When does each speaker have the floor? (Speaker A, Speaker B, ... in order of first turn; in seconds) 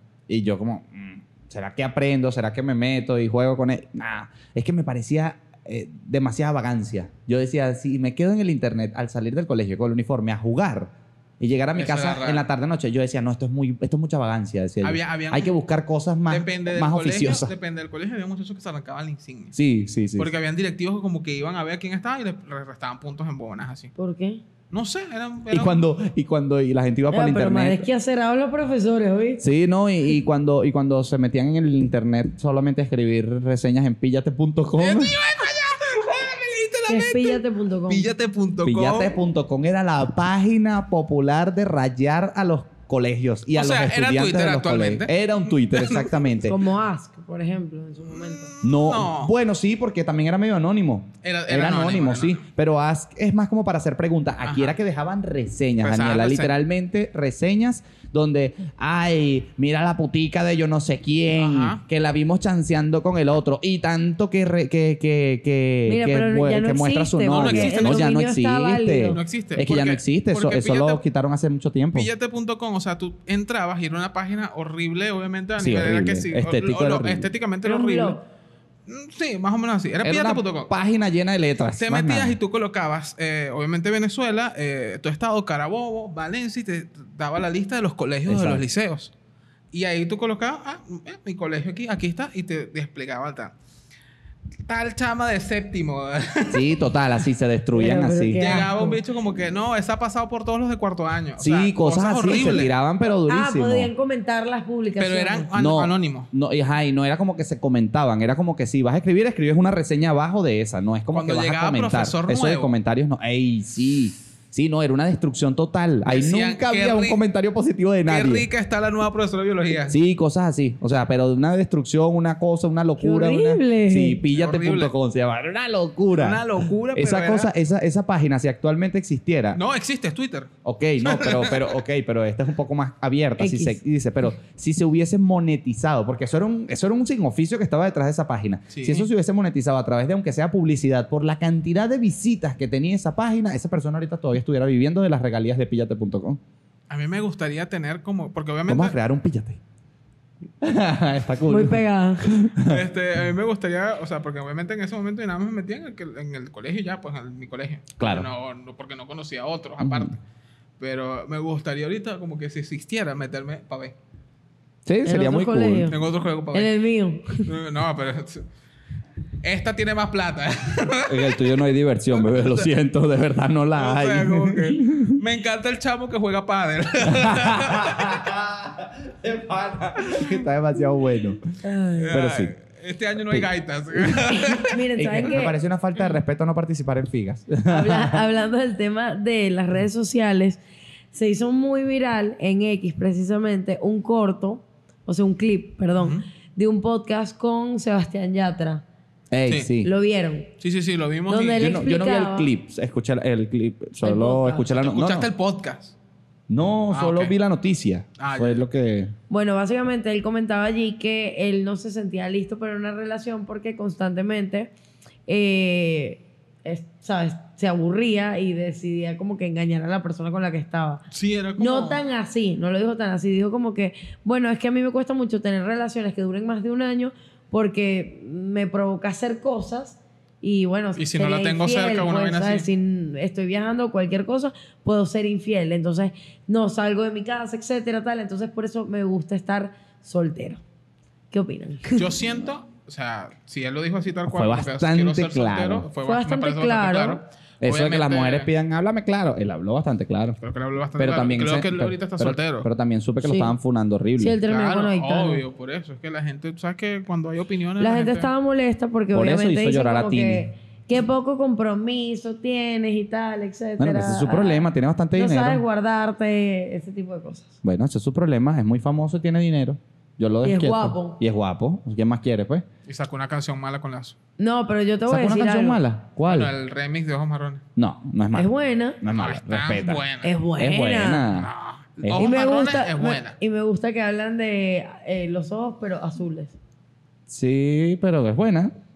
Speaker A: 0.3-17.5, 19.6-20.3, 25.5-27.9, 29.4-35.2, 38.6-46.6, 48.6-72.1, 75.6-77.3, 80.0-82.4, 88.3-88.6, 96.5-98.6, 101.4-103.9, 105.6-118.5, 119.9-129.6, 130.6-146.4, 148.7-149.6, 150.6-152.8, 158.0-158.3, 159.8-160.2, 164.8-165.9, 171.1-175.2, 177.1-181.4, 182.1-182.5, 183.3-184.4, 185.0-188.2, 199.3-199.9, 201.6-205.3, 206.5-209.1, 244.3-245.9, 247.6-250.4, 251.0-254.4, 259.1-260.5, 263.8-265.6, 267.6-272.7, 275.1-276.5, 277.8-280.1, 280.6-281.5, 282.0-282.3, 287.3-288.7
Speaker B: 11.8-12.4, 14.8-15.6, 16.3-19.6, 20.2-23.9, 24.7-25.8, 34.8-39.2, 43.5-46.2, 48.1-49.3, 51.2-52.4, 54.4-54.8, 55.8-56.5, 61.4-61.8, 67.3-68.1, 69.1-71.0, 71.9-78.2, 78.9-80.7, 81.8-89.1, 89.7-93.5, 94.7-96.9, 98.4-102.7, 105.0-106.3, 111.1-112.7, 116.1-117.2, 118.1-120.0, 124.3-124.9, 126.2-127.5, 129.5-130.5, 131.0-131.8, 138.7-139.1, 146.9-149.0, 152.6-160.2, 160.8-163.9, 165.9-166.7, 167.4-168.5, 169.4-171.5, 172.1-172.7, 173.8-178.2, 182.0-184.8, 196.0-196.2, 200.6-201.8, 204.7-205.9, 206.9-207.4, 208.2-208.6, 221.1-222.0, 231.0-232.7, 241.9-248.5, 250.4-252.7, 254.5-258.3, 272.9-274.2, 276.2-277.6, 279.1-280.3, 281.3-283.4
Speaker C: 24.0-24.4, 27.1-29.4, 36.9-38.1, 46.4-48.5, 65.9-69.2, 77.6-78.2, 97.7-99.0, 103.3-105.5, 123.0-124.2, 133.4-133.8, 151.5-152.3, 165.1-166.0, 166.5-167.5, 181.6-182.2, 184.6-185.6, 187.7-190.6, 191.1-198.8, 199.8-200.5, 201.3-202.5, 204.0-204.7, 209.3-214.7, 215.3-221.0, 221.6-240.6, 241.3-242.1, 246.0-247.2, 253.2-253.6, 254.2-255.4, 257.8-267.6, 270.4-271.2, 274.4-275.8, 278.3-279.0, 280.2-281.3, 282.1-286.6